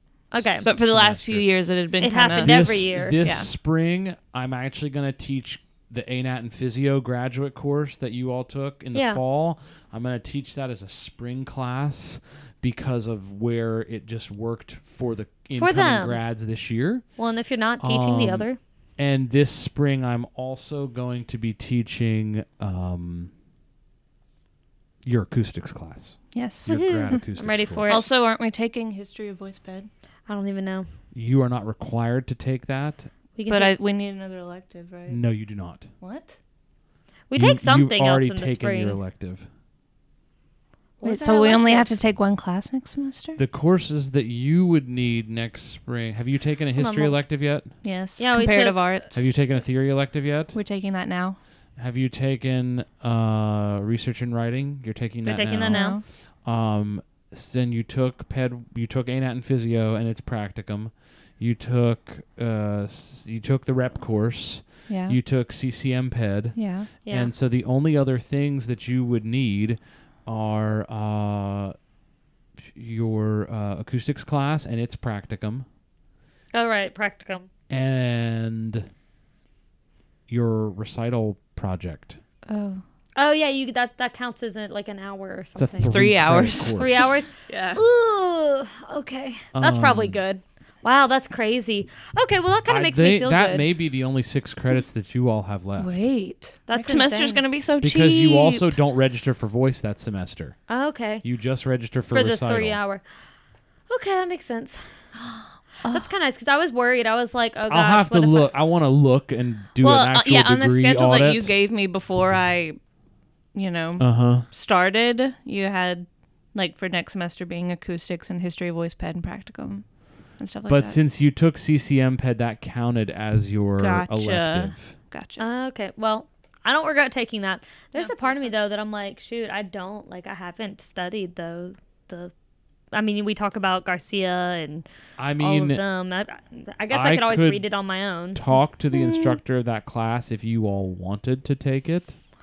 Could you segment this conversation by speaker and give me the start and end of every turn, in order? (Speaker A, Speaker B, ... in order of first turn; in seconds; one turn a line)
Speaker A: 0.3-0.7
Speaker B: 0.3-1.5
Speaker C: 0.6-3.5
Speaker A: 2.0-3.2
Speaker B: 2.4-17.0
Speaker A: 8.9-9.2
Speaker A: 15.6-16.2
Speaker A: 17.2-18.6
Speaker B: 17.8-18.4
Speaker B: 19.0-23.3
Speaker B: 25.0-28.0
Speaker C: 26.3-26.7
Speaker A: 26.7-28.0
Speaker C: 27.9-29.9
Speaker A: 30.3-30.9
Speaker B: 31.1-33.1
Speaker A: 33.4-33.7
Speaker C: 33.5-35.2
Speaker B: 35.1-35.9
Speaker C: 36.0-36.4
Speaker A: 37.3-39.0
Speaker B: 37.3-39.5
Speaker A: 41.0-41.9
Speaker C: 41.0-43.4
Speaker B: 43.4-47.7
Speaker A: 46.8-47.1
Speaker C: 47.8-49.2
Speaker A: 48.2-48.9
Speaker B: 49.1-50.6
Speaker C: 50.5-51.4
Speaker B: 51.8-55.9
Speaker A: 55.2-56.0
Speaker C: 55.7-56.0
Speaker B: 56.4-71.7
Speaker C: 64.9-65.2
Speaker C: 66.5-66.9
Speaker A: 67.0-67.3
Speaker B: 72.7-75.7
Speaker A: 76.5-77.5
Speaker B: 77.7-78.9
Speaker B: 80.3-82.2
Speaker C: 82.5-82.8
Speaker A: 83.2-86.0
Speaker B: 85.5-87.1
Speaker C: 85.8-86.9
Speaker A: 86.7-93.7
Speaker C: 87.5-87.8
Speaker B: 89.5-90.2
Speaker B: 92.7-96.0
Speaker C: 95.8-98.7
Speaker A: 96.7-97.4
Speaker B: 97.8-100.6
Speaker A: 100.7-101.2
Speaker B: 101.2-102.8
Speaker A: 102.1-103.0
Speaker A: 103.9-104.8
Speaker A: 105.9-108.5
Speaker B: 107.7-111.5
Speaker C: 109.8-112.8
Speaker C: 113.5-119.8
Speaker B: 114.0-114.5
Speaker C: 120.4-121.0
Speaker B: 120.7-124.9
Speaker C: 123.8-125.4
Speaker A: 125.4-132.3
Speaker C: 127.9-128.5
Speaker A: 132.9-134.8
Speaker B: 135.2-135.8
Speaker A: 135.4-138.4
Speaker B: 136.9-137.7
Speaker B: 138.3-142.2
Speaker C: 138.9-139.4